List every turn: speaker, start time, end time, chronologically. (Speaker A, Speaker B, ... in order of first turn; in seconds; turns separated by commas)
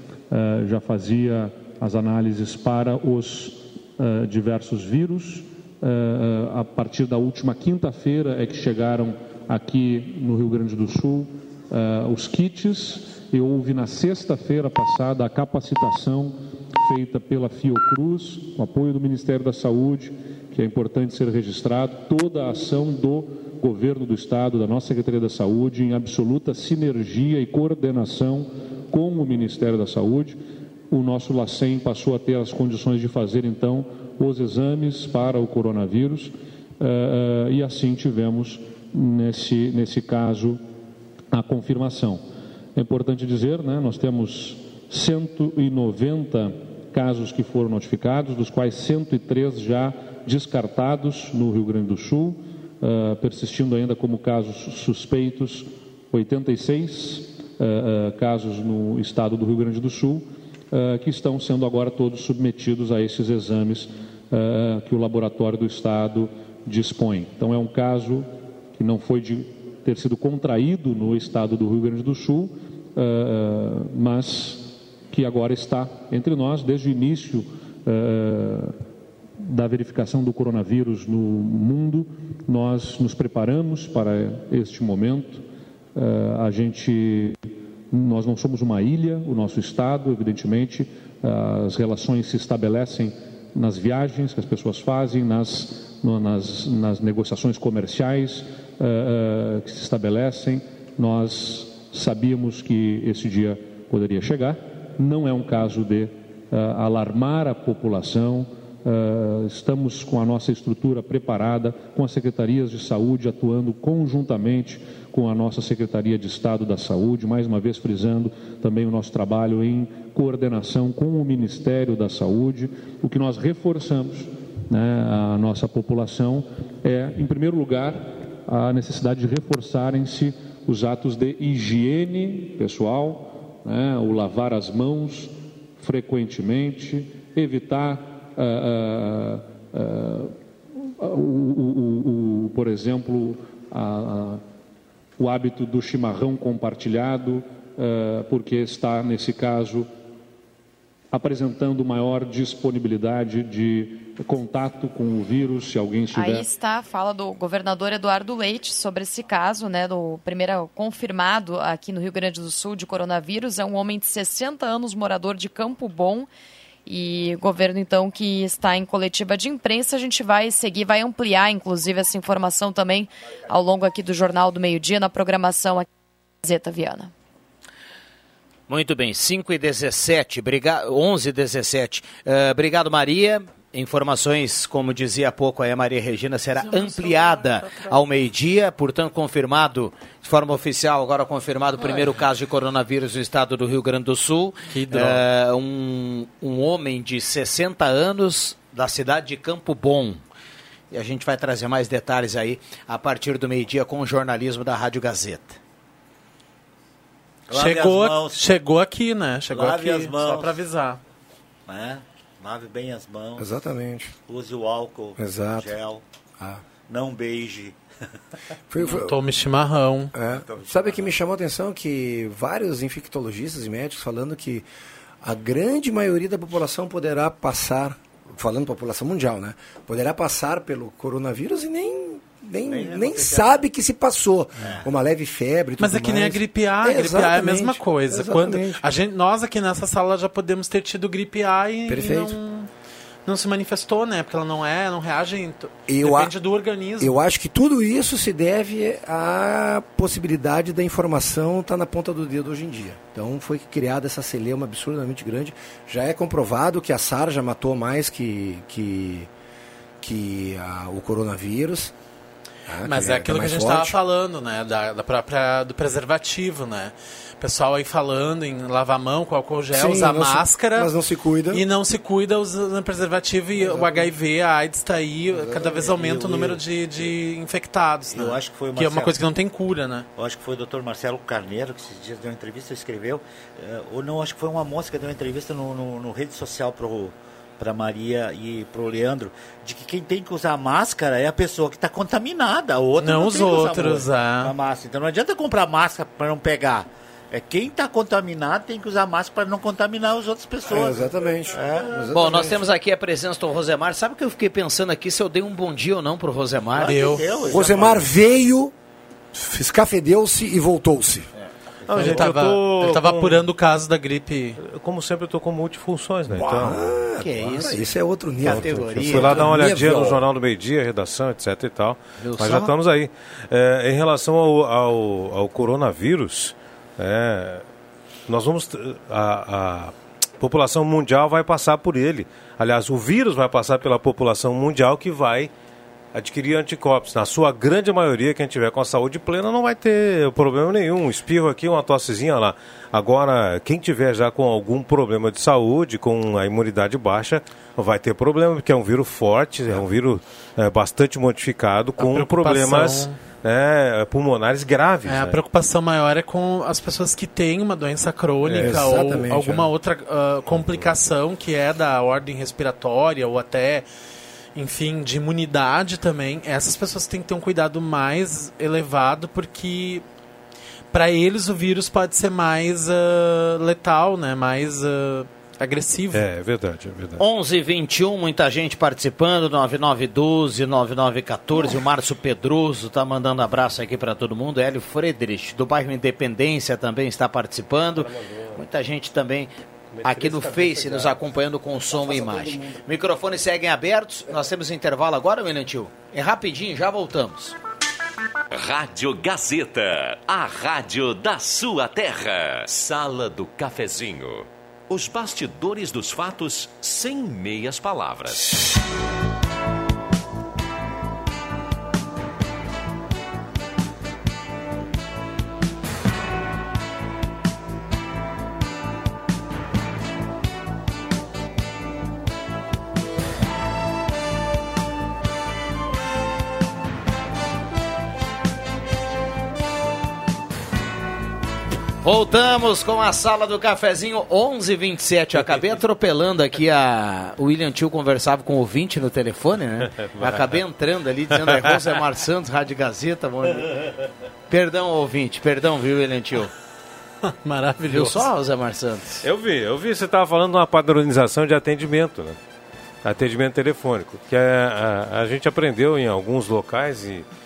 Speaker A: 0.3-30.4, Speaker A: 30.9-40.6, Speaker A: 41.3-42.2, Speaker A: 42.8-78.8, Speaker A: 79.4-85.4, Speaker A: 86.0-87.4, Speaker A: 87.9-140.4, Speaker A: 140.9-144.4, Speaker A: 145.2-149.9, Speaker A: 151.1-156.5, Speaker B: 156.1-166.3, Speaker B: 166.9-175.9, Speaker B: 176.4-177.1, Speaker C: 178.7-200.2, Speaker D: 186.7-187.4, Speaker D: 194.7-195.2, Speaker C: 200.9-205.6, Speaker E: 207.5-208.4, Speaker D: 207.5-211.0, Speaker E: 209.5-210.6, Speaker E: 211.7-213.5, Speaker F: 213.4-214.1, Speaker E: 214.3-216.0, Speaker F: 215.2-215.7, Speaker E: 216.9-217.8, Speaker F: 218.7-219.2, Speaker D: 218.8-220.1, Speaker F: 220.1-224.7, Speaker E: 220.5-221.1, Speaker F: 225.2-238.8, Speaker E: 232.7-233.7, Speaker D: 235.8-242.7, Speaker F: 241.9-242.4, Speaker D: 243.3-247.2, Speaker F: 245.9-246.3, Speaker F: 247.0-259.3, Speaker F: 260.0-261.9, Speaker F: 262.7-264.0, Speaker D: 262.9-270.9, Speaker F: 269.7-271.6, Speaker D: 271.5-280.1, Speaker F: 273.6-274.1, Speaker E: 275.4-277.0, Speaker E: 278.1-279.1, Speaker E: 280.2-302.1, Speaker D: 293.0-294.5, Speaker F: 300.7-302.6, Speaker C: 302.1-306.9, Speaker E: 306.7-308.1, Speaker D: 306.8-307.3, Speaker F: 307.5-308.7, Speaker F: 309.3-311.3, Speaker G: 311.9-313.5, Speaker D: 311.9-314.6, Speaker E: 311.9-312.2, Speaker G: 314.6-316.9, Speaker F: 316.3-320.2, Speaker C: 317.2-319.4, Speaker G: 318.5-327.6, Speaker C: 322.2-322.7, Speaker G: 328.3-335.5, Speaker G: 336.1-355.4, Speaker D: 352.0-353.2, Speaker D: 355.1-363.9, Speaker G: 358.4-359.2, Speaker F: 358.6-359.7, Speaker D: 364.6-370.0, Speaker D: 370.9-376.2, Speaker G: 376.1-377.2, Speaker C: 377.2-389.5, Speaker G: 388.0-388.5, Speaker G: 390.0-391.2, Speaker C: 390.0-397.6, Speaker H: 398.5-408.6, Speaker C: 432.0-443.9, Speaker C: 444.5-446.5, Speaker D: 447.2-448.3, Speaker C: 447.9-449.2, Speaker G: 449.2-452.4, Speaker G: 453.0-457.3